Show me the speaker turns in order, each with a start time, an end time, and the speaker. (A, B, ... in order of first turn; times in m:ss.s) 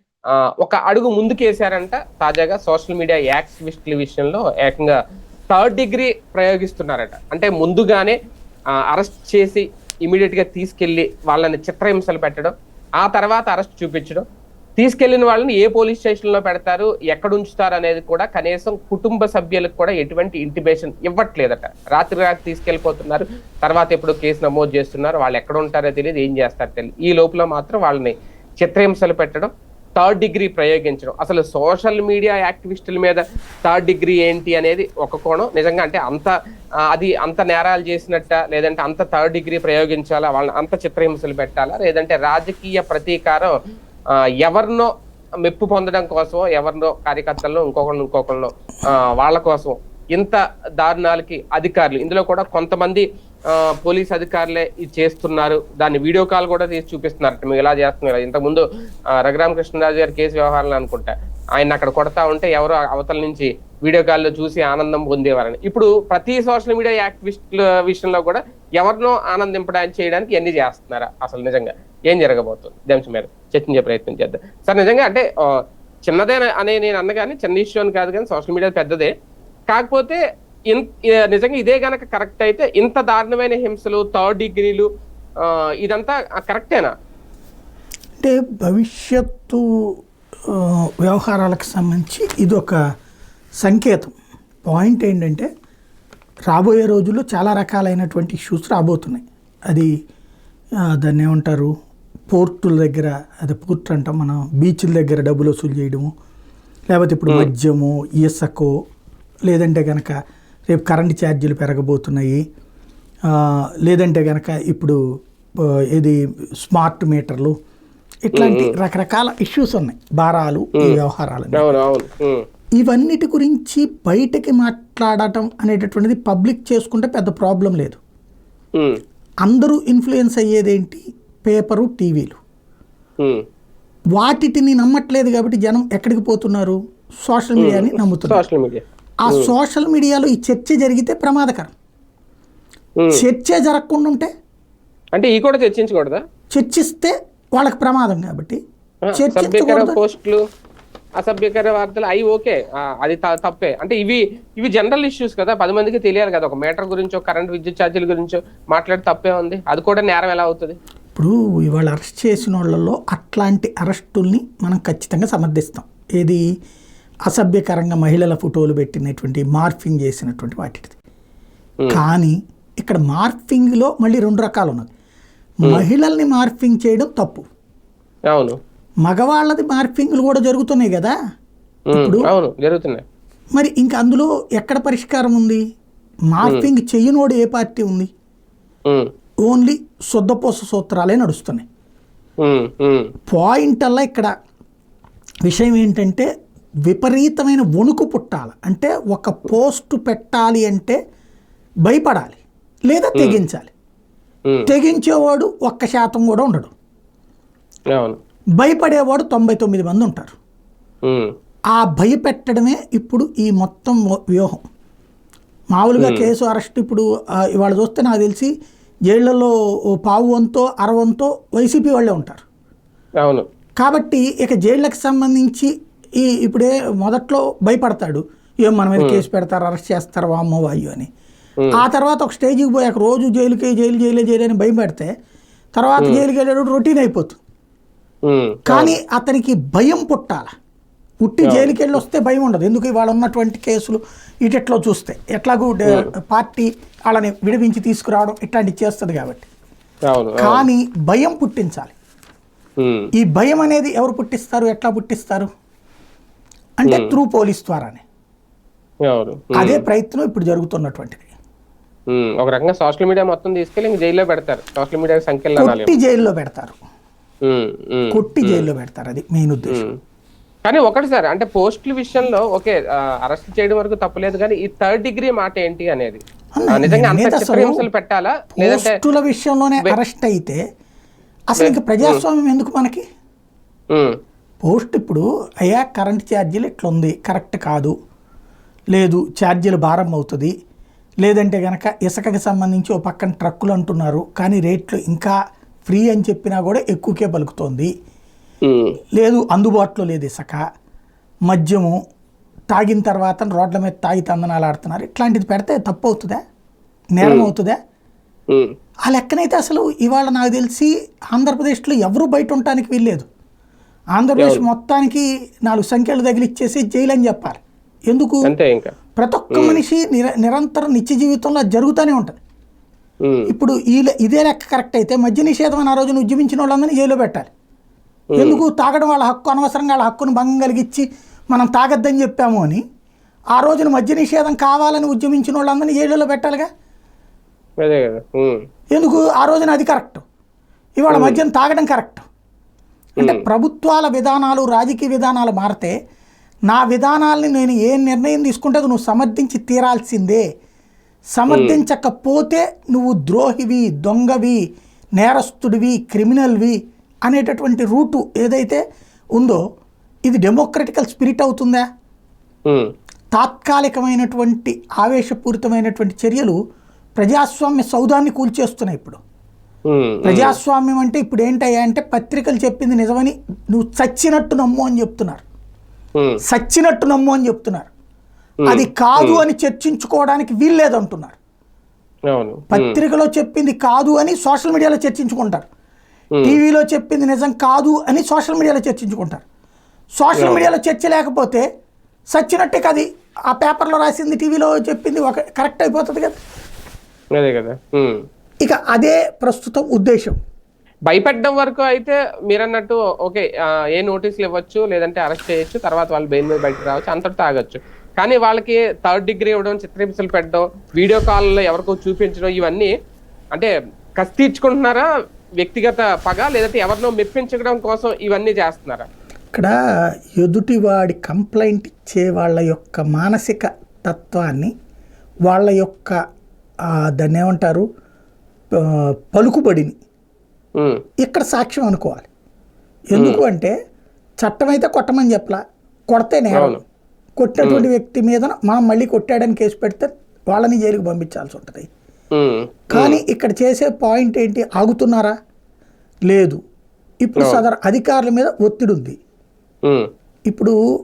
0:00.6-0:05.0 A
0:05.5-0:08.2 A
0:08.9-0:14.2 A
0:14.8-0:36.3 A
0:36.9-0:43.6 A
0:44.4-0:44.9 A
0:45.4-0:53.0 A
0:53.8-0:58.6 A
0:59.2-1:15.5 A
1:16.1-1:19.1 A
1:19.7-1:20.2 A
1:20.7-1:24.9 A
1:25.4-1:26.9 A
1:28.2-1:29.6 B
1:30.5-1:32.8 B
1:33.6-1:34.1 B
1:34.6-1:35.5 B
1:36.5-1:39.9 B
1:41.0-1:41.7 B
1:42.3-1:46.1 B
1:46.9-1:48.7 B
1:49.5-1:50.1 B
1:50.7-1:52.4 B
1:53.3-1:55.0 B
1:55.9-1:57.5 B
1:58.3-2:01.7 B
1:58.3-1:58.7 A
2:01.5-2:02.4 A
2:02.8-2:08.0 B
2:09.4-2:12.4 B
2:14.2-2:18.4 B
2:17.6-2:19.5 A
2:19.2-2:21.7 B
2:23.1-2:24.3 B
2:25.2-2:26.2 A
2:26.5-2:28.6 B
2:29.1-2:30.4 A
2:29.1-2:30.0 B
2:31.2-2:40.8 A
2:41.1-2:46.4 B
2:47.3-2:51.0 B
2:51.9-2:54.9 B
2:55.6-2:57.4 B
2:59.0-3:01.1 B
3:01.9-3:03.0 A
3:01.9-3:02.3 B
3:03.5-3:05.6 B
3:06.3-3:08.1 B
3:06.4-3:06.7 A
3:09.4-3:11.6 B
3:12.4-3:13.1 A
3:13.3-3:14.3 B
3:15.4-3:16.3 B
3:16.8-3:21.0 B
3:21.8-3:23.7 B
3:23.1-3:23.4 A
3:24.7-3:26.7 B
3:28.6-3:30.3 B
3:31.7-3:34.6 B
3:35.7-3:38.5 B
3:36.0-3:36.3 A
3:39.1-3:42.4 B
3:43.8-3:51.1 B
3:49.0-3:49.2 A
3:51.7-3:55.1 B
3:55.8-3:57.4 B
3:58.3-3:59.0 A
3:58.7-4:00.5 B
4:01.2-4:09.5 B
4:01.4-4:01.7 A
4:10.1-4:10.7 A
4:10.4-4:11.9 B
4:12.8-4:13.1 A
4:13.2-4:15.5 B
4:16.8-4:18.0 B
4:16.9-4:17.1 A
4:19.1-4:19.8 A
4:19.6-4:21.3 B
4:22.1-4:26.0 A
4:25.6-4:26.8 B
4:27.5-4:28.7 A
4:28.1-4:29.8 B
4:30.7-4:36.2 A
4:36.6-4:37.8 B
4:36.7-4:39.0 A
4:38.6-4:40.6 B
4:41.5-4:43.0 B
4:41.6-4:42.2 A
4:44.6-4:47.9 B
4:48.9-4:50.5 B
4:51.2-4:57.9 B
4:58.6-4:59.0 A
4:59.1-5:00.6 B
5:01.5-5:02.0 B
5:02.7-5:06.4 B
5:07.1-5:07.8 B
5:07.2-5:07.5 A
5:09.0-5:13.3 B
5:14.2-5:18.5 B
5:14.4-5:14.6 A
5:18.4-5:18.9 A
5:19.2-5:22.4 B
5:19.5-5:19.8 A
5:23.5-5:27.5 B
5:28.4-5:28.6 A
5:28.4-5:32.8 B
5:33.5-5:36.7 B
5:37.8-5:38.6 A
5:38.9-5:40.2 B
5:41.0-5:42.2 B
5:41.1-5:41.4 A
5:43.2-5:45.9 B
5:46.7-5:50.4 B
5:51.3-5:54.6 B
5:51.5-5:51.8 A
5:55.2-5:58.8 B
5:59.4-5:59.6 B
6:00.3-6:01.8 B
6:03.3-6:06.6 B
6:07.2-6:09.2 B
6:09.9-6:10.6 A
6:10.2-6:15.4 B
6:16.5-6:17.9 B
6:18.7-6:19.4 A
6:18.7-6:21.4 B
6:22.3-6:23.0 A
6:22.7-6:25.6 B
6:26.4-6:29.4 B
6:30.2-6:31.6 B
6:30.4-6:30.7 A
6:32.3-6:36.4 B
6:37.4-6:38.2 A
6:38.6-6:40.4 B
6:41.1-6:52.9 A
6:53.5-6:55.0 A
6:55.6-6:59.0 A
7:00.4-7:04.7 B
7:05.5-7:06.2 B
7:07.1-7:07.8 B
7:08.8-7:09.9 B
7:11.2-7:12.3 B
7:13.1-7:13.7 B
7:13.1-7:13.4 A
7:14.4-7:15.6 B
7:16.1-7:16.8 B
7:16.5-7:16.8 A
7:17.4-7:21.9 B
7:22.4-7:23.2 A
7:22.9-7:25.3 B
7:26.3-7:26.6 B
7:27.2-7:29.2 B
7:30.5-7:30.7 B